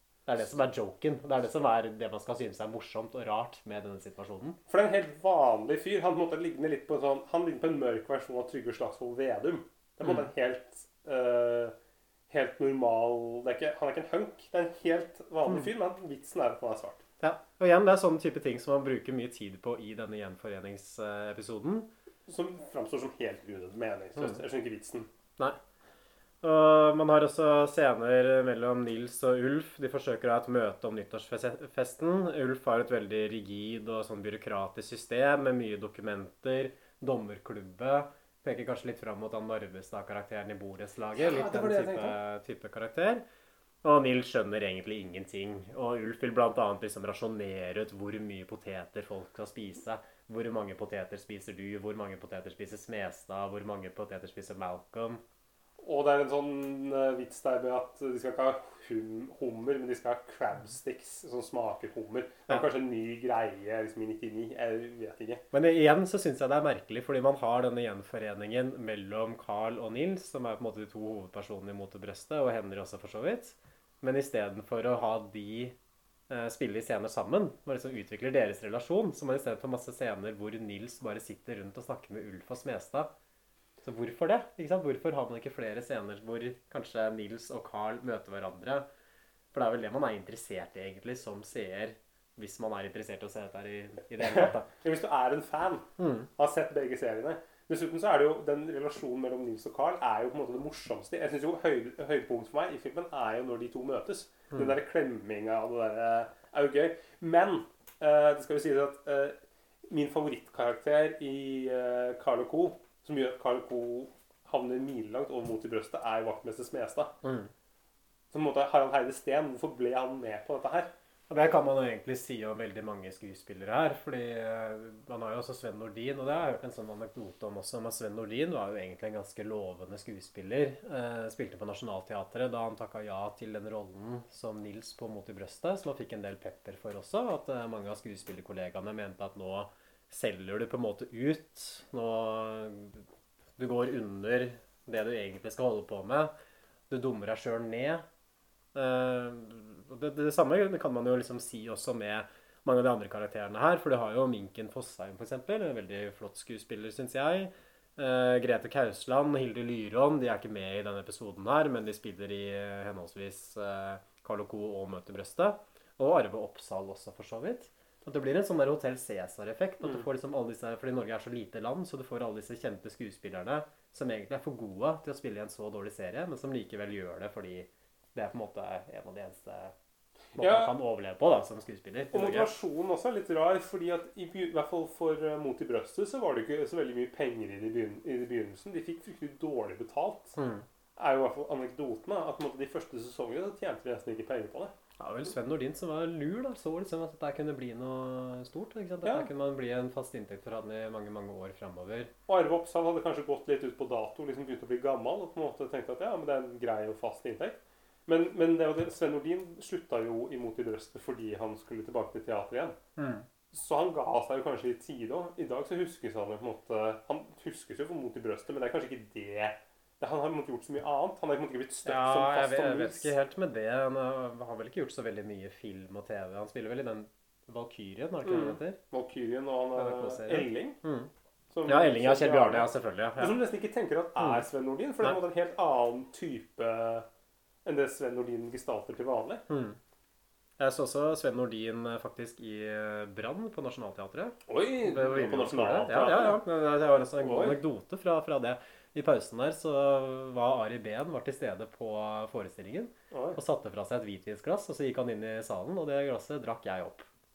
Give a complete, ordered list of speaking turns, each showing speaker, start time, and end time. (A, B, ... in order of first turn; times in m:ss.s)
0:00.3-0:04.6 A
0:04.7-0:11.7 B
0:12.3-0:17.0 B
0:17.2-0:21.9 A
0:22.3-0:25.1 B
0:26.4-0:43.2 A
0:41.2-0:42.2 B
0:43.8-0:55.2 A
0:55.8-1:05.4 B
1:05.5-1:15.8 A
1:16.3-1:23.1 A
1:23.8-1:28.9 A
1:29.5-1:34.7 A
1:34.2-1:49.4 B
1:36.0-1:36.3 A
1:49.9-1:57.1 B
1:57.2-1:57.5 A
1:58.3-2:00.9 B
2:01.3-2:23.0 A
2:23.6-2:26.3 A
2:26.9-2:28.0 A
2:28.8-2:59.7 A
3:00.4-3:00.7 B
3:00.4-3:02.5 A
3:02.1-3:10.4 B
3:10.4-3:10.7 A
3:11.0-3:14.7 B
3:15.0-3:22.1 A
3:19.0-3:19.3 B
3:22.3-3:32.8 B
3:33.0-3:33.3 A
3:33.5-3:43.1 B
3:41.8-3:48.8 A
3:48.2-3:50.8 B
3:49.8-3:51.1 A
3:51.5-3:57.1 B
3:51.7-3:53.4 A
3:54.2-3:54.4 A
3:57.6-3:59.4 B
3:59.5-3:59.8 A
4:00.6-4:17.1 A
4:04.5-4:06.4 B
4:07.2-4:07.6 B
4:13.1-4:13.4 B